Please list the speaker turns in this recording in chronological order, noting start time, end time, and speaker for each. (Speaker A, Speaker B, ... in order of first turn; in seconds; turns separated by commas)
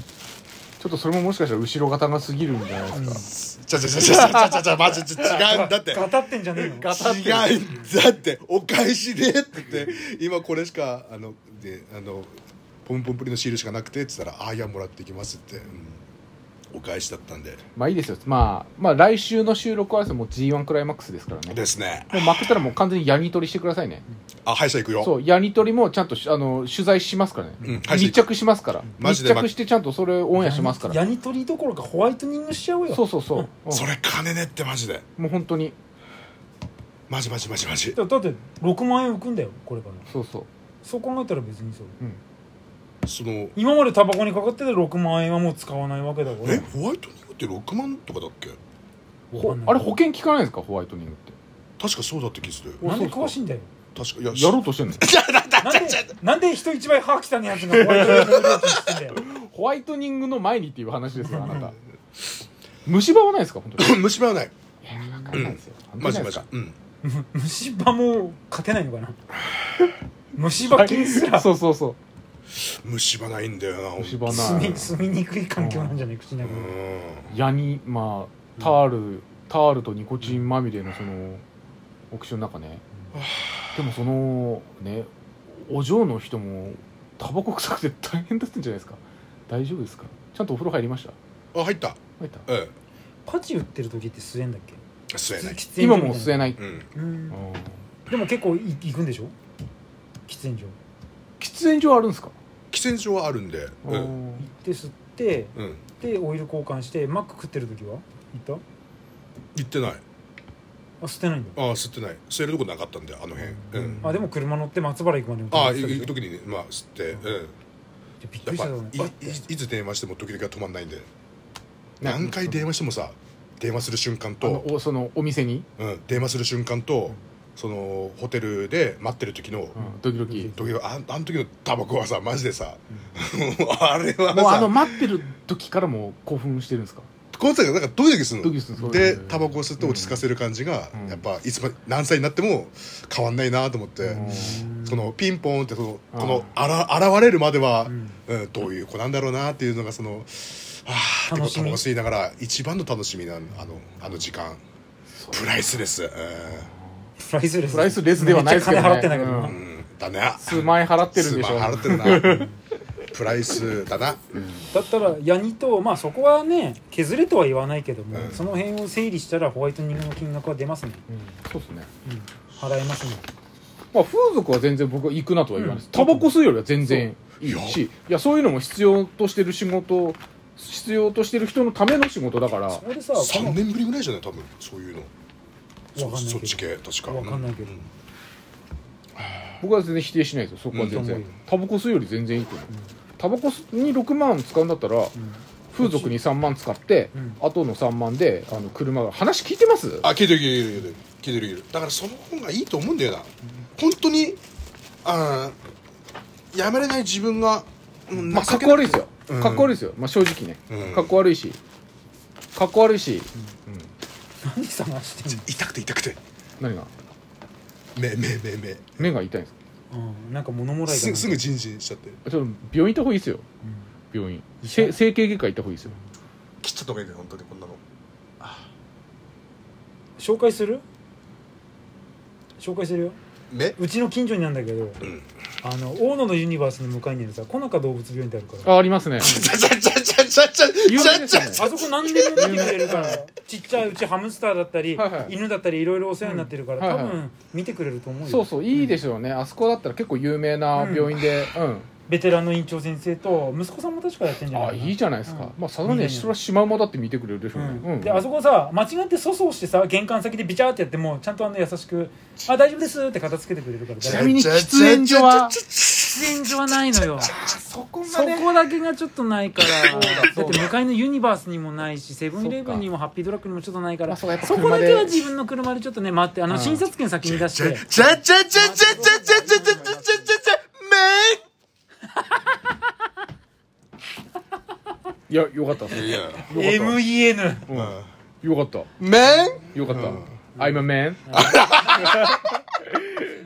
Speaker A: 0.8-3.3, Speaker B: 2.9-3.3, Speaker C: 3.3-6.0, Speaker A: 3.9-5.3, Speaker B: 5.3-7.0, Speaker A: 6.6-7.6, Speaker C: 6.9-12.3, Speaker C: 12.8-16.0, Speaker C: 16.7-17.6, Speaker A: 17.8-24.0, Speaker C: 21.5-22.6, Speaker C: 24.4-25.1, Speaker A: 25.0-31.0, Speaker C: 27.6-28.3, Speaker C: 28.9-29.5, Speaker B: 30.3-33.5, Speaker A: 32.9-33.9, Speaker C: 33.7-35.0, Speaker A: 35.2-35.7, Speaker C: 37.1-38.0, Speaker B: 37.9-40.1, Speaker A: 40.1-40.5, Speaker B: 40.8-42.0, Speaker C: 43.0-43.5, Speaker B: 43.5-46.7, Speaker C: 46.4-48.6, Speaker B: 49.3-50.0, Speaker A: 49.4-51.3, Speaker C: 51.8-52.8, Speaker A: 52.8-53.4, Speaker B: 52.8-53.7, Speaker C: 53.9-56.1, Speaker A: 54.3-55.0, Speaker B: 55.6-59.2, Speaker C: 57.9-58.4, Speaker A: 58.0-58.6, Speaker A: 59.1-61.8, Speaker B: 61.3-61.7, Speaker A: 62.8-64.0, Speaker C: 63.8-64.5, Speaker A: 64.8-66.5, Speaker B: 64.9-65.5, Speaker C: 65.3-66.8, Speaker B: 67.0-69.2, Speaker B: 70.3-71.5, Speaker A: 70.6-72.0, Speaker C: 72.5-74.9, Speaker A: 74.0-74.9, Speaker B: 74.3-76.7, Speaker A: 75.6-76.0, Speaker C: 76.4-77.3, Speaker A: 77.3-81.4, Speaker A: 82.1-82.8, Speaker C: 83.1-83.8, Speaker A: 83.7-91.1, Speaker C: 91.5-92.7, Speaker A: 92.2-92.4, Speaker B: 93.2-94.8, Speaker C: 95.1-95.6, Speaker B: 95.4-97.4, Speaker A: 95.8-96.6, Speaker C: 96.5-96.8, Speaker A: 97.3-97.7, Speaker B: 98.1-99.3, Speaker B: 100.3-100.8, Speaker A: 101.4-102.3, Speaker C: 102.7-104.1, Speaker A: 103.8-104.4, Speaker B: 104.4-108.6, Speaker C: 105.5-105.8, Speaker C: 109.5-110.0, Speaker B: 111.0-111.6, Speaker C: 111.5-114.0, Speaker A: 113.7-114.2, Speaker B: 114.0-116.1, Speaker C: 115.5-117.5, Speaker B: 118.2-119.4, Speaker C: 118.5-121.1, Speaker A: 122.0-122.7, Speaker C: 122.0-124.7, Speaker A: 124.4-125.7, Speaker C: 125.8-129.8, Speaker A: 129.7-130.5, Speaker B: 129.8-130.7, Speaker C: 130.3-135.0, Speaker A: 134.3-137.1, Speaker C: 137.3-154.6, Speaker A: 138.4-140.2, Speaker A: 140.9-141.2, Speaker B: 144.1-145.1, Speaker A: 144.1-144.7, Speaker A: 146.1-146.5, Speaker B: 147.8-148.2, Speaker B: 151.3-151.8, Speaker C: 155.3-156.7, Speaker B: 157.2-159.6, Speaker A: 157.7-159.6, Speaker C: 159.5-162.5, Speaker A: 160.4-162.5, Speaker C: 163.1-164.4, Speaker B: 164.7-171.0, Speaker C: 168.1-168.4, Speaker A: 171.1-171.9, Speaker B: 172.0-173.2, Speaker A: 173.9-182.8, Speaker B: 175.6-177.1, Speaker C: 177.4-177.8, Speaker B: 182.7-183.6, Speaker C: 183.2-185.1, Speaker B: 185.9-187.8, Speaker C: 185.9-187.8, Speaker C: 189.2-189.6, Speaker A: 189.6-195.1, Speaker C: 190.7-191.1, Speaker B: 190.8-191.4, Speaker B: 195.1-196.2, Speaker A: 195.7-200.1, Speaker B: 197.1-197.4, Speaker C: 200.0-204.4, Speaker C: 205.0-205.6, Speaker C: 206.5-209.8, Speaker A: 208.3-211.6, Speaker C: 210.7-211.2, Speaker A: 212.5-213.9, Speaker B: 214.4-215.4, Speaker C: 215.3-216.2, Speaker A: 216.6-216.9, Speaker C: 217.9-219.1, Speaker A: 219.0-219.5, Speaker B: 219.9-221.4, Speaker C: 220.9-222.2, Speaker A: 222.2-223.4, Speaker A: 224.1-225.9, Speaker B: 224.6-224.9, Speaker C: 226.6-227.8, Speaker B: 230.2-230.8, Speaker B: 232.6-233.2, Speaker C: 233.5-233.8, Speaker B: 233.8-235.0, Speaker B: 235.6-238.7, Speaker A: 238.6-239.4, Speaker C: 239.2-243.2, Speaker A: 240.8-241.7, Speaker B: 241.5-248.9, Speaker A: 242.3-243.2, Speaker A: 244.9-245.3, Speaker A: 246.2-247.2, Speaker A: 248.2-251.9, Speaker B: 250.7-251.1, Speaker B: 252.1-256.3, Speaker A: 254.5-258.2, Speaker B: 257.5-264.4, Speaker A: 264.0-265.6, Speaker C: 264.0-266.6, Speaker B: 266.0-267.3, Speaker A: 267.2-268.5, Speaker B: 268.0-280.4, Speaker C: 269.6-270.6, Speaker A: 269.8-270.7, Speaker A: 272.4-272.8, Speaker A: 274.1-275.2, Speaker A: 276.5-276.9, Speaker C: 277.2-281.4, Speaker A: 285.3-287.0, Speaker C: 285.9-286.5, Speaker B: 286.5-287.7, Speaker A: 287.7-288.9, Speaker C: 287.7-288.1, Speaker C: 289.0-290.3, Speaker A: 289.7-293.2, Speaker B: 290.6-292.1, Speaker C: 291.3-292.4